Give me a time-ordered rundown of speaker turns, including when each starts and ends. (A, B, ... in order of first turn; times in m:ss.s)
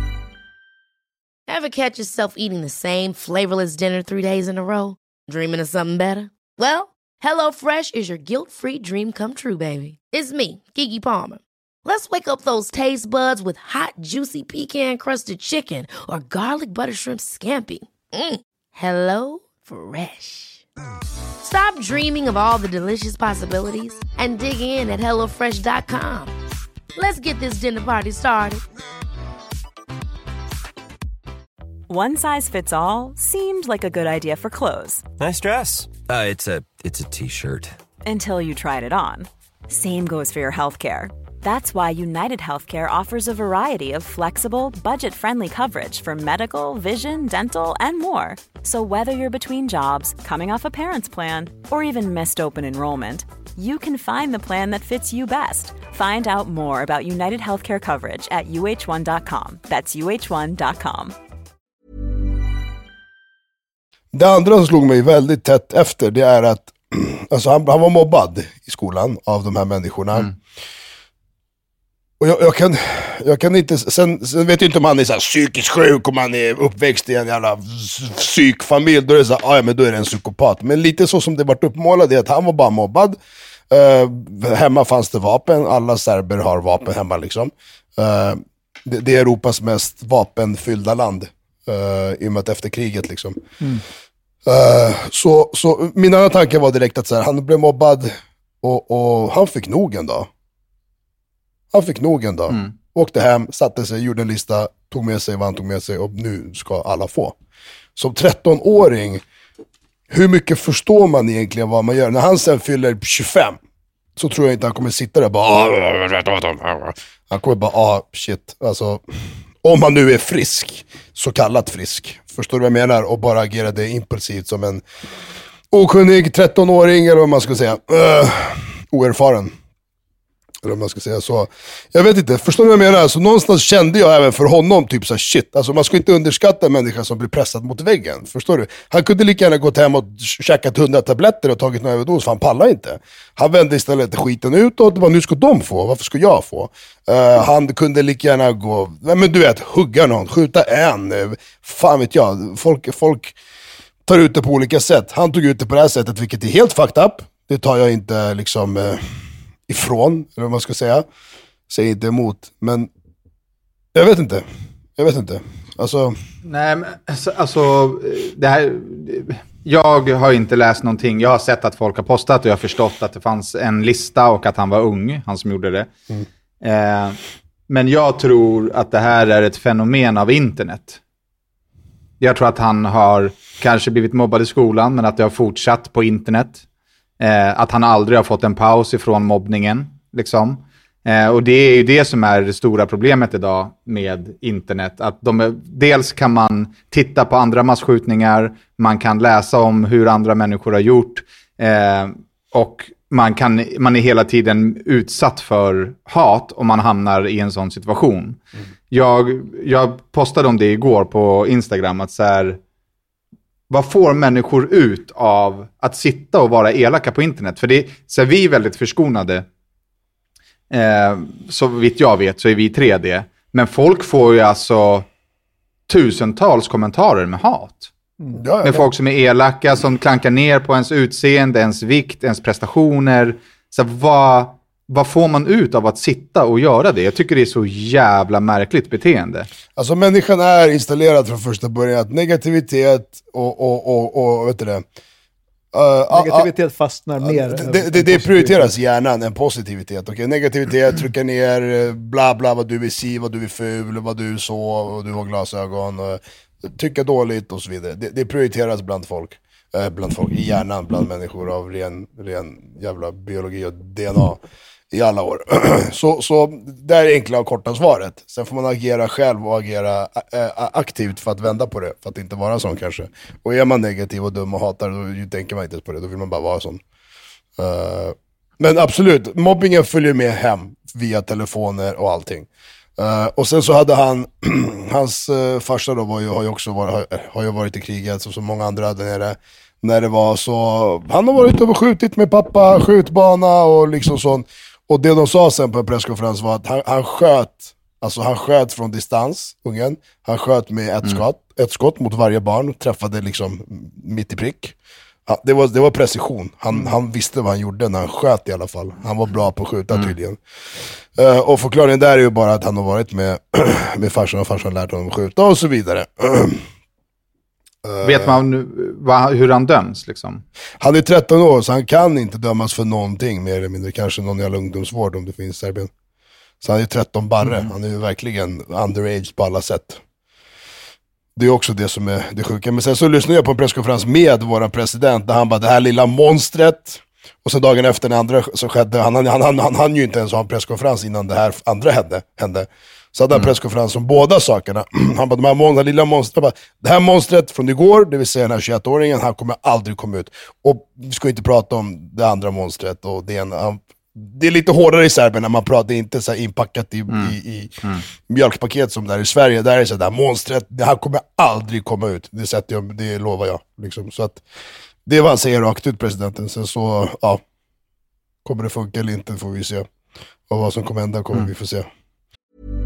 0:01.5-0:20.6 A
0:21.4-0:26.3 A
0:26.9-0:28.6 A
0:31.9-0:35.0 B
0:35.2-0:37.7 C
0:38.0-1:01.1 B
1:04.1-1:10.3 D
1:12.2-1:23.2 D
1:23.7-1:33.4 D
1:34.4-1:40.3 D
1:41.7-1:47.4 D
1:48.0-1:49.2 D
1:50.1-1:53.6 D
1:54.2-1:59.0 D
1:59.6-2:04.8 D
2:05.7-2:09.5 D
2:10.6-2:33.4 D
2:34.0-2:39.0 D
2:39.7-2:41.0 D
2:41.7-2:42.9 D
2:43.9-2:44.4 D
2:45.0-2:46.2 D
2:46.4-2:55.9 E
2:56.6-3:01.0 E
3:02.2-3:06.6 E
3:07.2-3:28.4 E
3:28.9-3:32.6 E
3:33.7-3:39.4 E
3:40.7-3:45.0 E
3:45.9-3:47.9 E
3:48.3-3:48.9 D
3:48.6-3:59.5 E
3:59.8-4:04.8 D
4:05.7-4:06.5 D
4:06.1-4:08.7 F
4:07.2-4:24.4 D
4:24.9-4:36.8 D
4:37.6-5:04.8 D
5:05.3-5:16.6 D
5:17.8-5:18.4 D
5:18.0-5:20.4 E
5:20.8-5:25.9 D
5:26.6-5:30.0 D
5:31.4-6:04.4 D
5:57.1-5:58.0 E
6:05.0-6:07.4 D
6:08.4-6:09.8 D
6:10.5-6:11.9 D